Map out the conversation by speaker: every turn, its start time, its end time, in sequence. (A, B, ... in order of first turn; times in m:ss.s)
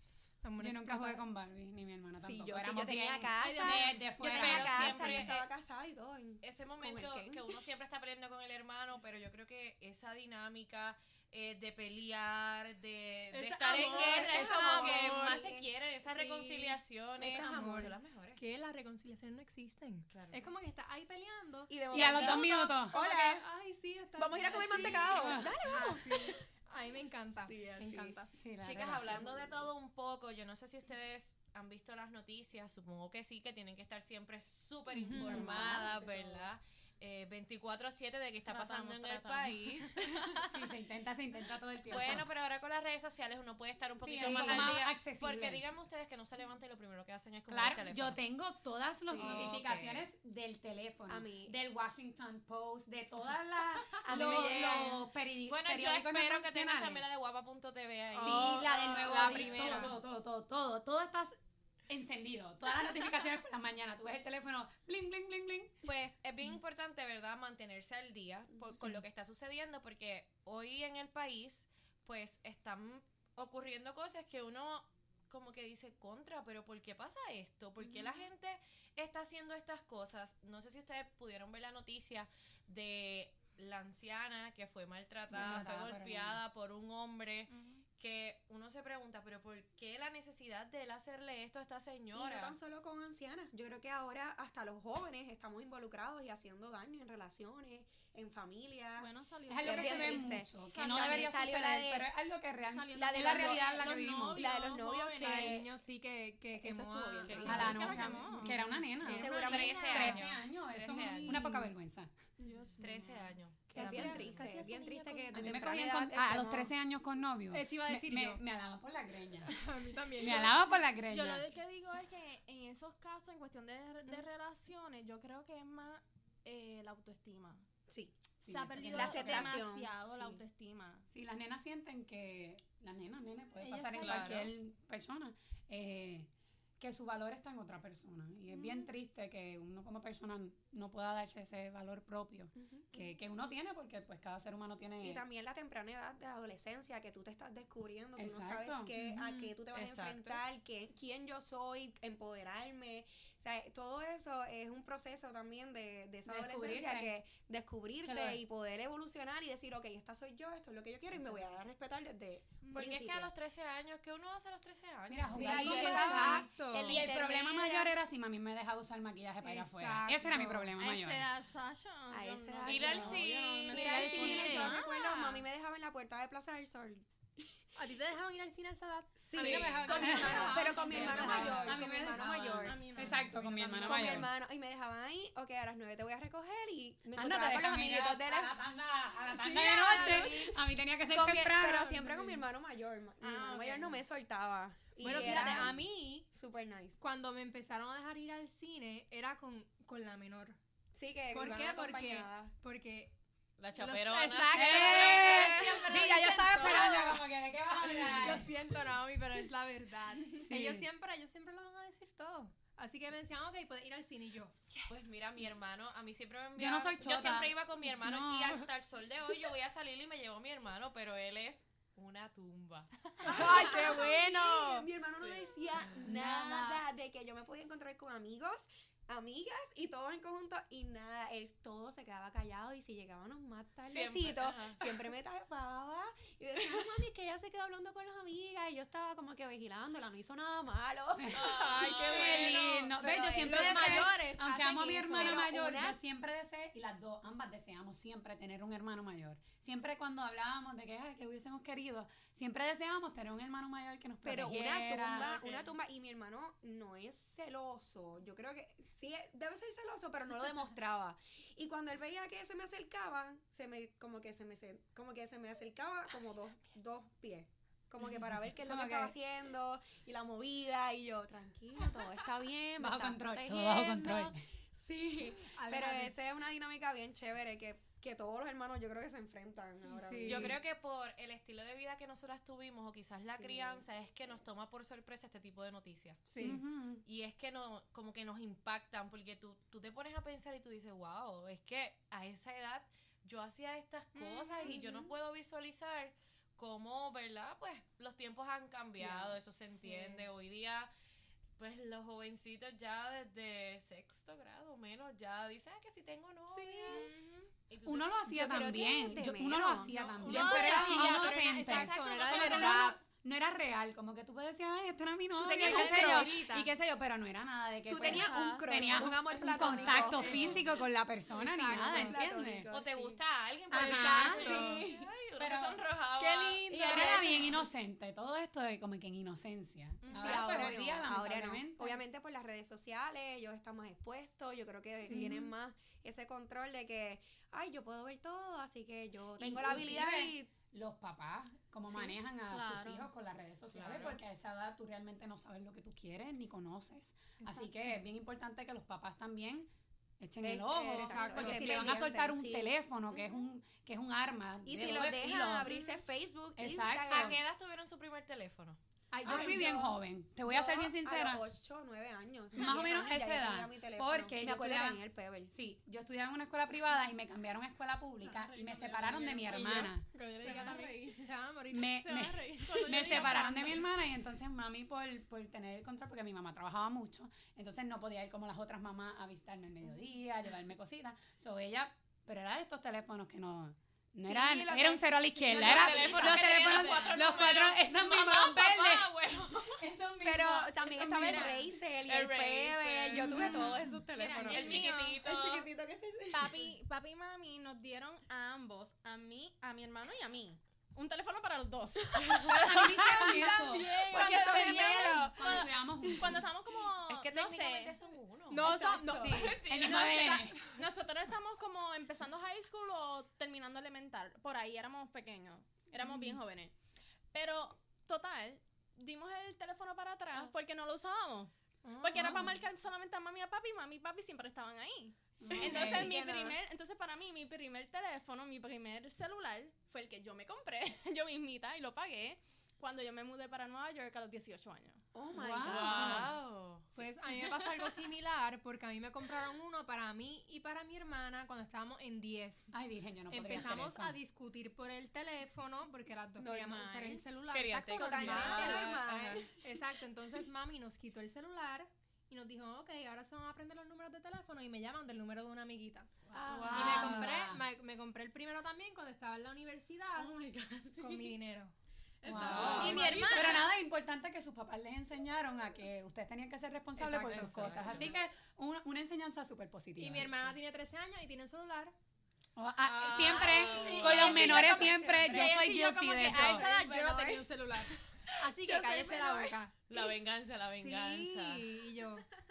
0:00.4-0:01.2 A
0:00.6-0:05.3 B
0:02.2-0:07.6 C
0:03.4-0:05.2 D
0:04.3-0:05.4 E
0:06.4-0:18.4 E
0:13.3-0:15.5 A
0:13.7-0:15.6 C
0:17.2-0:17.9 C
0:17.2-0:28.3 A
0:20.1-0:20.5 E
0:21.7-0:23.4 C
0:21.9-0:23.0 B
0:24.2-0:26.4 C
0:25.0-0:25.6 B
0:27.4-0:28.2 C
0:28.4-0:29.3 B
0:28.6-0:40.3 E
0:29.0-0:29.7 C
0:34.9-0:35.8 A
0:35.1-0:36.5 C
0:38.5-0:40.6 D
0:40.4-0:42.3 B
0:41.9-0:48.2 E
0:44.0-0:45.6 B
0:44.1-0:44.8 A
0:47.5-0:57.0 B
0:49.1-0:50.0 E
0:49.2-0:49.6 C
0:51.1-0:51.6 C
0:54.0-0:55.0 C
0:54.0-0:54.9 E
0:55.5-0:59.9 E
0:58.1-0:58.7 C
0:58.2-1:00.0 A
0:58.2-1:01.4 B
1:01.9-1:05.8 B
1:05.8-1:32.6 E
1:25.3-1:26.4 B
1:27.5-1:27.8 D
1:32.1-1:39.1 C
1:39.0-1:41.3 D
1:39.5-1:44.5 B
1:39.6-1:42.1 C
1:42.6-1:45.7 D
1:42.9-1:43.7 C
1:44.3-1:45.8 C
1:45.2-1:51.7 A
1:46.5-1:48.0 C
1:47.2-1:47.8 E
1:47.4-1:52.1 B
1:47.5-1:48.6 D
1:49.0-1:50.1 C
1:49.2-1:51.4 E
1:52.4-1:53.2 D
1:52.8-1:54.5 E
1:53.7-1:56.7 C
1:53.7-1:55.4 A
1:53.8-1:54.5 D
1:55.3-1:59.5 B
1:57.5-1:58.4 A
1:59.4-2:00.6 A
2:00.2-2:01.4 B
2:01.1-2:07.6 D
2:07.9-2:08.2 C
2:08.4-2:09.6 B
2:08.4-2:11.1 D
2:08.9-2:10.4 C
2:11.1-2:25.2 B
2:13.6-2:14.3 A
2:14.0-2:14.5 E
2:22.6-2:22.9 C
2:25.0-2:43.3 C
2:28.2-2:28.9 B
2:29.0-2:29.5 A
2:29.7-2:30.4 E
2:36.2-2:37.1 B
2:38.0-2:38.4 B
2:42.7-2:45.7 E
2:45.1-2:51.3 B
2:45.2-2:47.1 A
2:45.3-2:47.9 C
2:49.4-2:50.7 A
2:50.8-2:55.4 D
2:52.1-2:57.5 C
2:52.6-2:54.4 E
2:53.7-2:54.8 A
2:57.8-3:01.7 A
2:59.2-3:08.5 C
2:59.3-3:01.8 D
2:59.4-2:59.7 E
3:00.0-3:04.3 B
3:00.9-3:01.7 E
3:02.6-3:03.8 D
3:07.1-3:12.2 B
3:09.3-3:10.4 D
3:09.8-3:17.0 C
3:13.2-3:14.0 D
3:15.0-3:16.3 A
3:17.0-3:20.6 A
3:20.9-3:22.5 C
3:21.3-3:23.1 A
3:23.6-3:25.8 E
3:23.8-3:27.2 A
3:24.5-3:28.5 B
3:28.0-3:34.6 A
3:30.4-3:30.8 B
3:34.7-3:35.1 C
3:34.9-3:43.6 E
3:36.6-3:38.6 B
3:43.2-4:04.1 C
3:43.2-3:44.7 D
3:43.3-3:44.2 A
3:45.2-3:45.5 E
3:45.9-3:46.8 B
3:53.8-3:54.9 E
4:01.2-4:15.3 B
4:01.3-4:02.6 E
4:03.4-4:05.5 A
4:05.1-4:06.0 C
4:14.2-4:40.6 C
4:15.2-4:15.6 D
4:28.6-4:29.1 B
4:32.8-4:34.4 B
4:35.5-4:36.1 A
4:39.9-4:40.6 A
4:40.2-4:46.3 E
4:43.4-4:43.8 C
4:46.2-4:46.6 A
4:46.4-4:47.0 B
4:47.0-5:00.9 E
4:54.1-4:54.7 D
4:54.6-4:55.1 C
4:59.0-4:59.4 C
5:01.6-5:07.1 E
5:06.5-5:07.1 A
5:06.9-5:07.5 D
5:07.7-5:08.1 E
5:07.8-5:22.7 B
5:08.3-5:11.6 C
5:09.8-5:13.0 A
5:11.6-5:12.8 E
5:15.4-5:16.4 C
5:15.5-5:16.7 A
5:17.9-5:20.6 C
5:18.0-5:18.6 D
5:18.1-5:22.2 A
5:20.2-5:20.6 E
5:21.7-5:23.2 C
5:22.7-5:26.8 E
5:23.7-5:24.6 B
5:23.7-5:24.9 A
5:23.8-5:25.0 C
5:25.4-5:25.8 B
5:26.2-5:27.6 A
5:26.7-5:27.6 C
5:26.8-5:32.0 B
5:30.0-5:30.8 D
5:30.1-5:40.5 C
5:35.0-5:35.5 A
5:35.1-5:35.4 B
5:39.4-5:49.7 B
5:42.5-5:43.1 D
5:43.7-5:44.2 E
5:47.4-5:48.0 A
5:50.2-5:55.7 B
5:50.4-5:52.7 C
5:50.9-5:52.0 A
5:54.6-5:57.4 C
5:56.6-5:57.4 B
5:57.1-5:58.8 E
5:59.1-6:01.4 B
5:59.2-5:59.9 C
5:59.3-5:59.7 A
6:00.4-6:05.5 C
6:02.5-6:10.1 B
6:08.2-6:11.3 D
6:09.5-6:12.0 A
6:11.7-6:31.7 B
6:11.9-6:13.9 D
6:13.1-6:13.4 A
6:24.2-6:26.5 C
6:25.5-6:29.8 E
6:25.9-6:27.6 D
6:30.2-6:36.7 C
6:31.2-6:31.5 D
6:32.0-6:35.7 E
6:33.2-6:33.9 B
6:34.1-6:35.2 D
6:36.3-6:48.0 D
6:42.5-6:46.5 B
6:43.0-6:44.4 A
6:44.0-6:45.6 C
6:47.1-6:50.2 E
6:48.5-6:49.6 A
6:48.6-6:56.7 D
6:49.2-6:50.6 B
6:56.0-6:56.4 A
6:57.3-7:15.0 D
7:01.8-7:02.6 A
7:02.2-7:02.6 B
7:05.4-7:06.1 B
7:05.5-7:06.6 C
7:15.1-7:16.3 C
7:15.3-7:16.3 B
7:15.6-7:16.9 E
7:16.9-7:22.7 A
7:22.7-7:24.2 B
7:23.3-7:36.1 A
7:26.4-7:27.2 C
7:27.5-7:29.5 E
7:27.9-7:29.5 C
7:28.4-7:28.8 D
7:36.3-7:37.2 C
7:36.3-7:37.0 D
7:36.5-7:37.3 E
7:36.7-7:37.6 B
7:36.7-7:40.3 A
7:40.2-7:41.4 D
7:41.0-7:41.7 A
7:42.2-7:43.6 D
7:42.2-7:50.6 B
7:42.2-7:43.1 E
7:42.5-7:43.6 C
7:42.5-7:43.6 A
7:47.0-7:48.1 A
7:47.2-7:48.1 E
7:50.0-7:51.9 A
7:52.6-7:56.6 B
7:52.9-7:54.4 E
7:53.2-7:54.9 D
7:53.2-7:59.7 A
7:53.4-7:55.6 C
7:56.2-7:57.4 C
7:58.3-8:00.0 C
7:59.9-8:01.7 E
8:00.7-8:02.2 A